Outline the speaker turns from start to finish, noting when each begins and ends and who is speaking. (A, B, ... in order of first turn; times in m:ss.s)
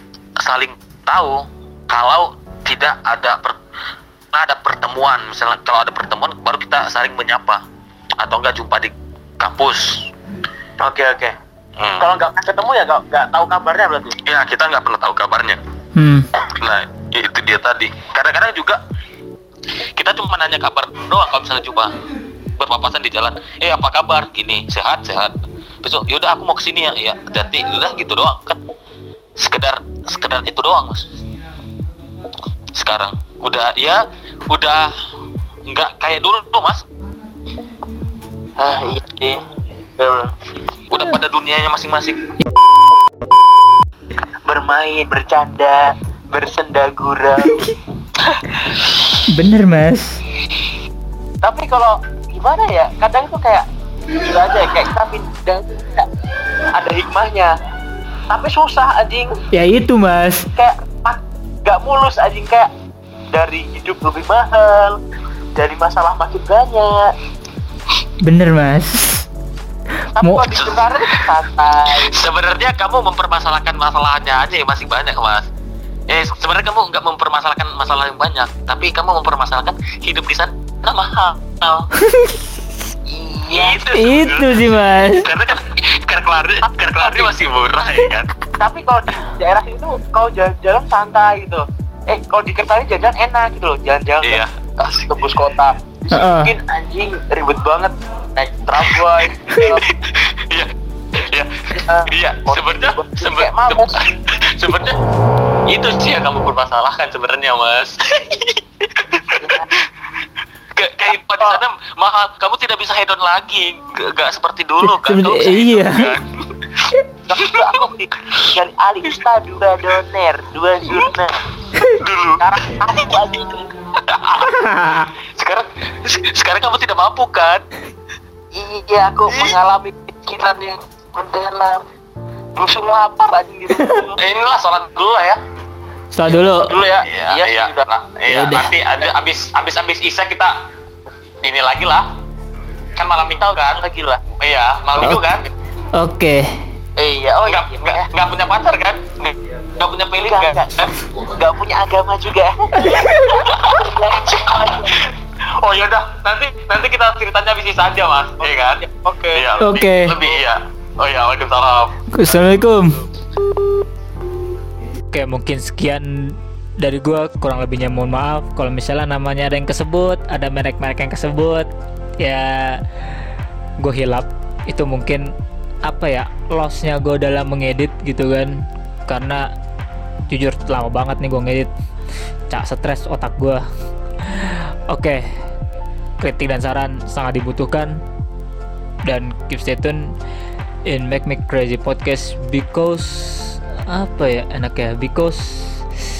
0:00.4-0:03.6 A
0:04.3-0:07.6 A
0:08.2-0:10.1 A
0:10.8-0:11.3 B
0:11.8-0:12.1 A
0:12.0-0:14.2 B
0:14.2-0:15.6 A
0:16.0-0:16.3 C
0:16.4-0:18.8 A
0:20.0-0:22.0 A
0:22.6-0:28.6 A
0:29.4-0:31.1 A
0:32.7-0:34.9 A
0:35.6-0:36.8 A
0:38.6-0:39.4 B
0:40.0-0:40.3 B
0:40.9-0:42.2 A
0:44.4-0:47.7 B
0:49.3-0:50.2 C
0:51.4-0:53.6 B
0:54.2-0:56.1 B
0:56.7-0:57.5 B
0:58.3-0:59.4 B
0:59.5-1:00.5 C
1:00.5-1:02.7 B
1:03.3-1:05.0 B
1:05.5-1:07.1 B
1:08.2-1:09.3 C
1:10.2-1:12.2 B
1:10.2-1:10.4 C
1:10.5-1:11.3 A
1:12.0-1:15.5 A
1:16.1-1:21.9 A
1:22.0-1:22.4 C
1:23.0-1:23.8 B
1:23.5-1:28.4 A
1:23.9-1:25.3 C
1:26.6-1:27.4 B
1:28.6-1:39.9 B
1:34.2-1:35.0 A
1:36.1-1:36.5 C
1:39.6-1:45.0 A
1:41.7-1:44.0 B
1:45.7-1:49.6 A
1:49.4-1:49.7 B
1:50.7-1:56.7 A
1:54.8-1:56.2 C
1:57.3-2:01.4 B
1:57.3-1:57.8 A
2:01.9-2:02.4 A
2:02.4-2:03.7 B
2:04.0-2:07.6 A
2:04.5-2:05.1 C
2:08.5-2:11.8 B
2:12.6-2:14.2 B
2:14.2-2:15.4 A
2:16.1-2:16.7 C
2:16.5-2:17.8 B
2:17.0-2:20.5 A
2:18.3-2:18.7 C
2:21.4-2:22.1 A
2:23.0-2:23.8 A
2:23.5-2:24.2 B
2:24.4-2:25.5 A
2:26.0-2:26.6 C
2:27.0-2:28.0 B
2:27.4-2:31.1 A
2:30.2-2:35.1 B
2:32.8-2:33.4 C
2:33.3-2:42.0 A
2:38.4-2:39.6 B
2:39.6-2:40.1 C
2:42.1-2:43.0 C
2:45.1-2:51.7 C
2:52.2-2:52.8 C
2:53.8-2:55.3 C
2:55.8-2:59.5 C
3:00.3-3:01.7 C
3:02.5-3:03.6 C
3:04.3-3:05.2 C
3:06.2-3:08.0 C
3:09.0-3:10.1 C
3:10.8-3:15.8 C